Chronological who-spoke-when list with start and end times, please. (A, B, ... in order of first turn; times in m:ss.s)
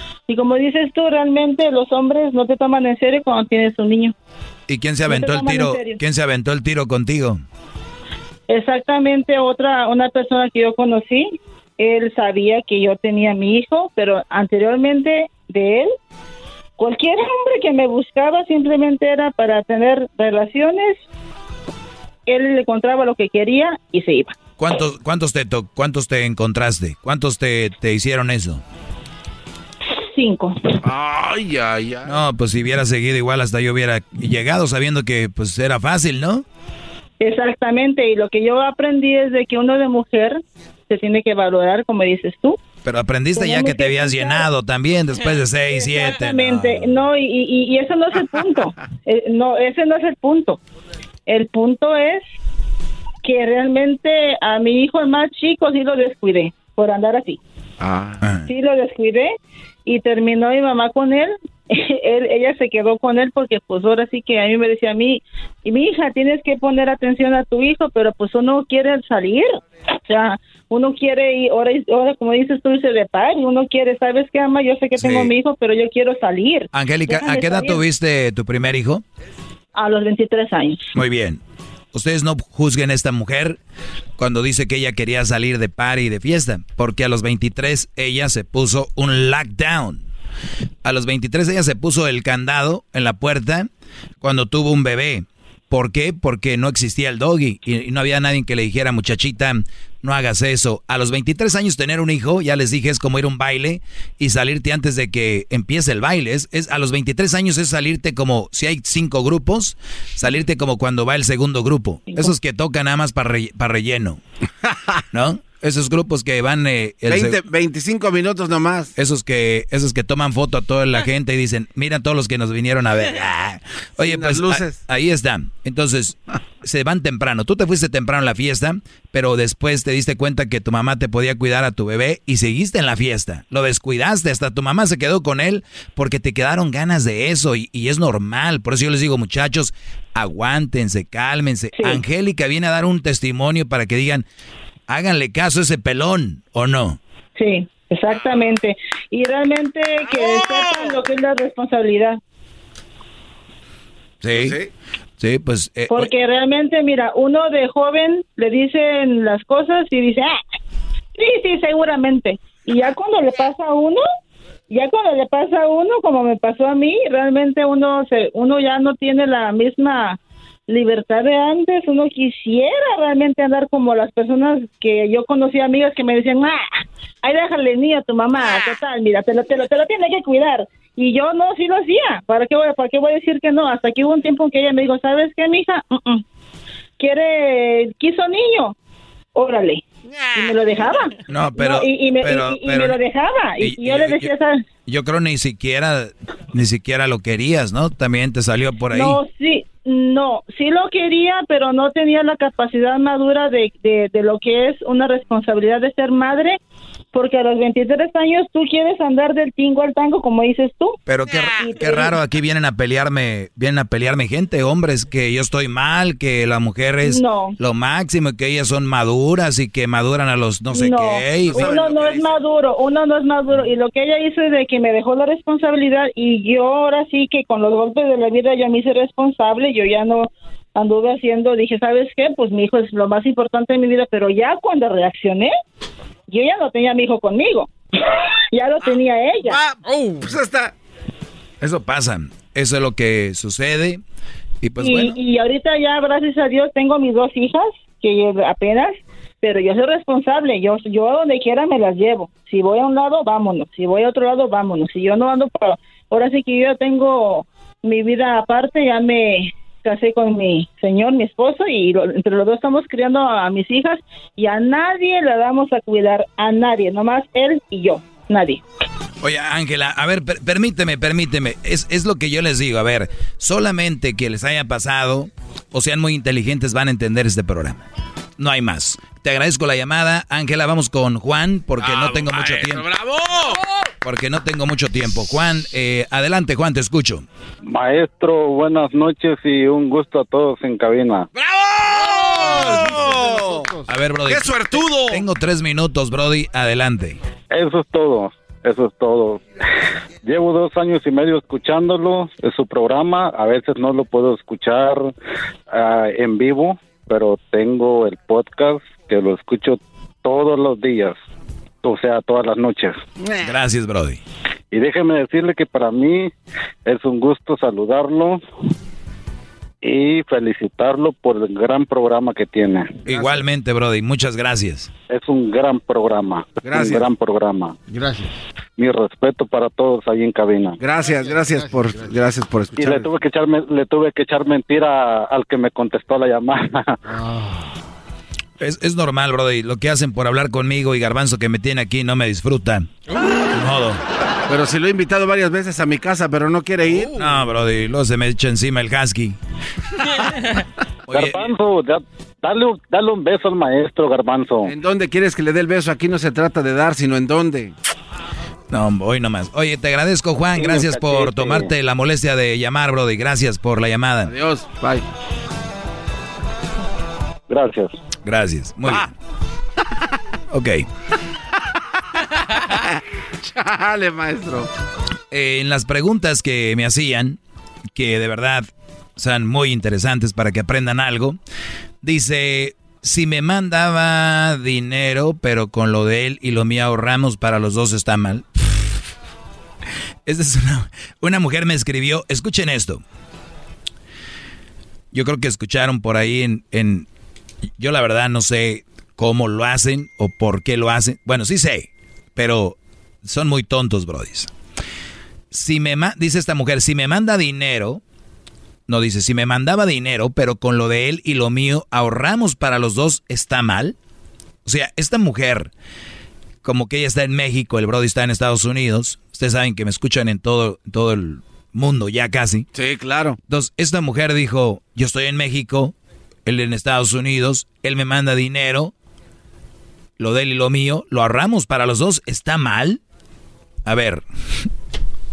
0:00.3-0:04.1 A
0:04.7-0:07.4 B
0:05.1-0:06.0 A
0:08.5-0:15.9 A
0:16.8-0:21.0 A
0:22.3-0:24.4 A
0:24.6-0:28.6 B
0:30.1-0:30.6 A
0:30.8-0:32.2 C
0:32.0-0:36.4 B
0:37.2-0:42.6 A
0:42.8-0:47.0 B
0:43.4-0:44.5 A
0:45.7-0:50.6 A
0:51.3-0:52.2 A
0:53.2-0:57.4 A
0:57.8-0:58.2 C
0:58.5-0:59.3 A
0:59.9-1:17.8 A
1:15.0-1:15.3 B
1:16.7-1:19.0 B
1:19.8-1:20.9 A
1:21.0-1:21.4 B
1:21.9-1:23.6 B
1:24.2-1:30.0 B
1:30.8-1:33.7 B
1:34.2-1:54.2 B
1:55.1-1:57.4 B
1:57.1-1:58.9 C
1:59.0-2:24.2 B
2:04.0-2:04.8 C
2:24.9-2:27.0 B
2:27.4-2:32.2 A
2:30.1-2:31.0 C
2:34.2-2:34.6 B
2:34.3-2:34.7 C
2:35.2-2:36.1 B
2:35.9-2:40.4 A
2:41.2-2:44.0 A
2:44.7-2:50.2 A
2:50.7-2:56.6 A
2:57.2-3:06.2 A
3:07.0-3:08.7 A
3:09.4-3:09.8 A
3:10.4-3:14.6 A
3:11.3-3:13.0 B
3:13.6-3:14.3 B
3:14.9-3:19.2 B
3:18.9-3:26.6 A
3:27.1-3:31.0 A
3:31.1-3:41.9 B
3:31.6-3:32.2 A
3:37.0-3:37.6 A
3:40.7-3:55.5 A
3:41.4-3:42.4 C
3:56.3-3:57.7 A
3:58.5-3:59.6 A
3:58.8-4:00.7 C
4:01.6-4:04.0 B
4:04.6-4:05.2 B
4:04.8-4:28.6 A
4:29.2-4:37.8 B
4:38.4-4:42.9 B
4:41.8-4:43.6 C
4:44.0-4:47.2 B
4:47.6-4:51.3 D
4:51.4-4:53.7 C
4:52.0-4:53.9 E
4:53.9-4:57.2 B
4:54.3-4:55.2 C
4:57.5-4:59.4 D
5:00.2-5:05.1 D
5:05.7-5:11.2 D
5:11.8-5:13.0 D
5:13.2-5:13.5 C
5:13.4-5:14.2 B
5:14.7-5:16.3 D
5:16.9-5:18.4 D
5:19.8-5:23.0 D
5:23.1-5:24.9 B
5:25.1-5:27.8 D
5:26.6-5:27.1 C
5:27.9-5:28.3 E
5:28.8-5:30.8 D
5:30.8-5:33.1 C
5:31.0-5:32.2 E
5:32.8-5:37.0 D
5:37.1-5:37.8 E
5:38.6-5:42.9 B
5:43.5-5:44.0 B
5:44.5-5:47.2 C
5:47.2-5:49.4 B
5:51.1-5:51.4 B
5:51.1-5:54.7 D
5:54.6-5:57.7 C
5:58.7-6:04.3 B
6:00.6-6:01.7 D
6:04.3-6:05.0 C
6:07.5-6:07.9 D
6:08.2-6:09.1 B
6:10.5-6:10.8 B
6:13.4-6:14.7 C
6:15.3-6:17.4 B
6:17.9-6:21.4 B
6:22.0-6:29.0 B
6:30.3-6:33.0 B
6:35.1-6:37.1 B
6:37.8-6:44.5 B
6:45.5-6:48.0 B
6:48.9-6:54.0 B
6:54.6-6:55.7 B
6:56.6-7:02.7 B
7:02.7-7:03.4 C
7:03.5-7:05.9 B
7:06.5-7:08.9 B
7:10.2-7:13.0 B
7:13.8-7:14.2 B